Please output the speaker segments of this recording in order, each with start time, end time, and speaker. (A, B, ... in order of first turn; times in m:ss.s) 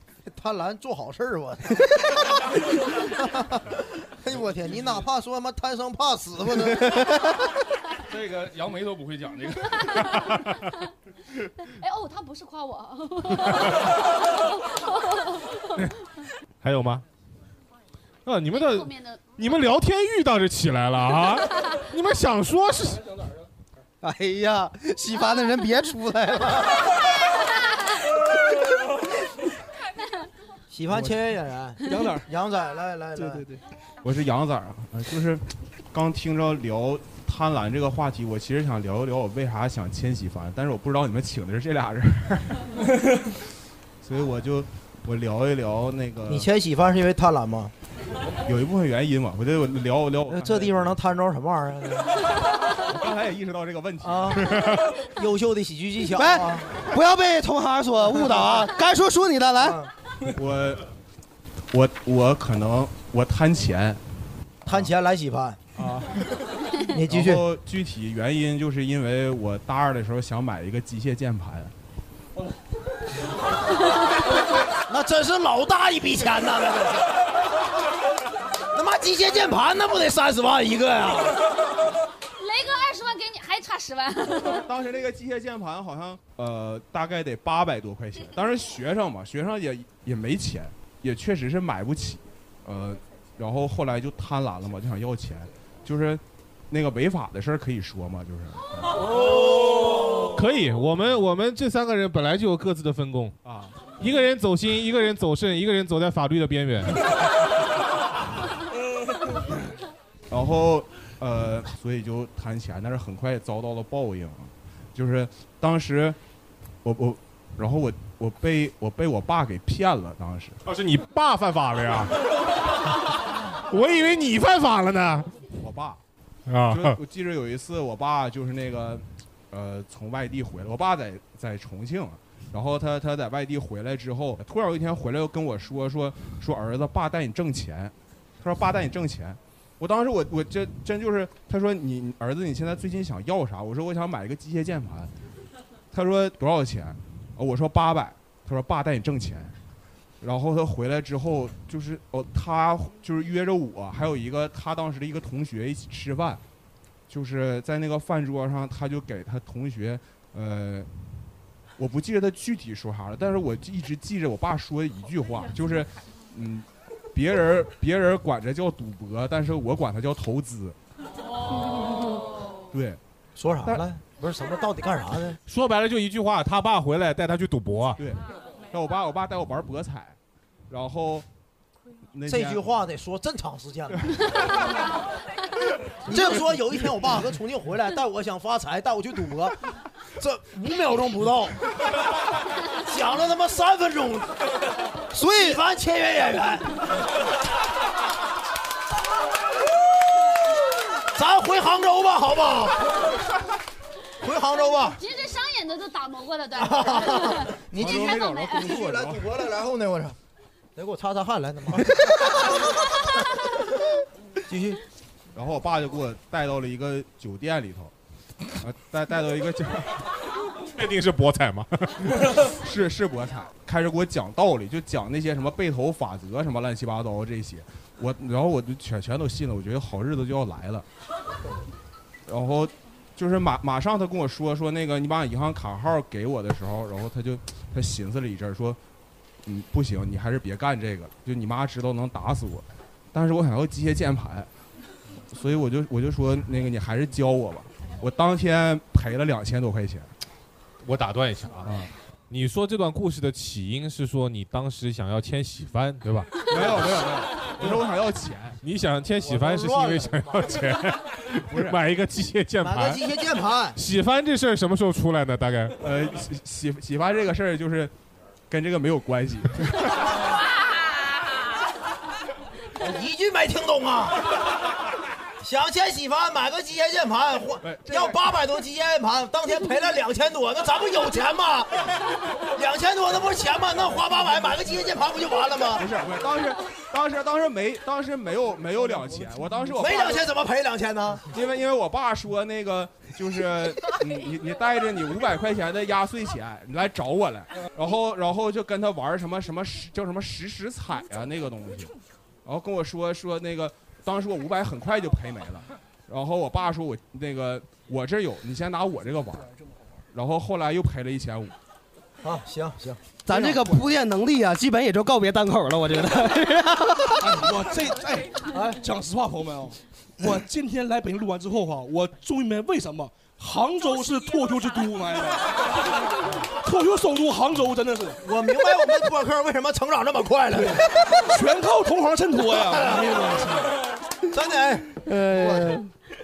0:00.3-0:07.3 A
0:08.1-0:10.2 B
0:11.8-0:15.5 C
0:16.6-0:17.0 D
0:18.2-0:23.1 D
0:18.5-0:19.2 C
0:24.0-0:26.7 E
0:30.7-0:33.5 A
0:31.8-0:32.3 F
0:33.2-0:33.6 F
0:34.0-0:42.6 G
0:44.0-0:46.5 G
0:46.3-0:47.7 A
0:48.4-0:51.0 G
0:50.3-0:52.2 A
0:52.8-0:54.7 G
0:54.0-0:54.6 A
0:55.1-0:56.7 A
0:56.1-0:59.8 E
0:59.6-0:59.9 A
1:00.3-1:00.9 G
1:01.7-1:04.0 G
1:04.6-1:05.6 A
1:05.8-1:06.4 G
1:06.9-1:07.4 A
1:07.0-1:11.7 G
1:14.9-1:17.1 A
1:18.7-1:21.4 A
1:22.4-1:24.6 C
1:24.6-1:39.0 G
1:40.3-1:43.4 D
1:43.4-1:43.8 G
1:44.0-1:47.0 D
1:50.3-1:56.2 G
1:56.8-2:00.6 G
2:00.6-2:02.1 D
2:03.7-2:05.4 D
2:05.5-2:06.0 G
2:06.5-2:07.0 D
2:06.7-2:25.1 G
2:25.9-2:29.5 G
2:30.2-2:36.4 G
2:37.1-2:40.9 G
2:41.8-2:50.8 G
2:52.7-2:53.0 G
2:53.4-2:55.4 A
2:55.5-2:58.0 D
2:58.0-3:00.2 G
3:00.7-3:01.2 G
3:02.1-3:02.7 G
3:02.2-3:04.1 A
3:06.0-3:09.6 A
3:10.2-3:11.7 A
3:12.8-3:14.3 A
3:15.1-3:15.6 E
3:15.1-3:16.8 A
3:21.1-3:22.9 A
3:24.2-3:25.0 A
3:24.7-3:28.9 C
3:26.6-3:30.2 A
3:27.8-3:29.2 G
3:30.8-3:32.5 A
3:34.5-3:34.8 A
3:35.3-3:37.9 G
3:38.6-3:40.0 G
3:40.7-3:42.1 D
3:42.6-3:50.8 G
3:52.3-3:58.8 G
3:59.4-4:04.5 G
4:05.3-4:10.1 G
4:10.8-4:16.9 D
4:16.5-4:18.6 G
4:18.6-4:23.0 D
4:19.2-4:20.6 A
4:21.4-4:21.8 G
4:22.6-4:23.8 A
4:23.7-4:25.8 D
4:25.8-4:27.9 G
4:28.5-4:30.0 G
4:32.8-4:34.2 A
4:35.4-4:41.9 A
4:37.6-4:38.1 G
4:42.5-4:45.8 A
4:45.8-4:50.2 G
4:49.8-4:51.2 A
4:51.3-5:01.9 G
5:02.4-5:09.5 G
5:10.1-5:11.5 G
5:12.2-5:13.5 A
5:13.2-5:17.3 E
5:17.2-5:25.6 F
5:18.5-5:18.8 A
5:26.6-5:28.2 F
5:28.2-5:31.0 A
5:30.5-5:33.7 F
5:32.8-5:33.3 A
5:34.3-5:35.9 A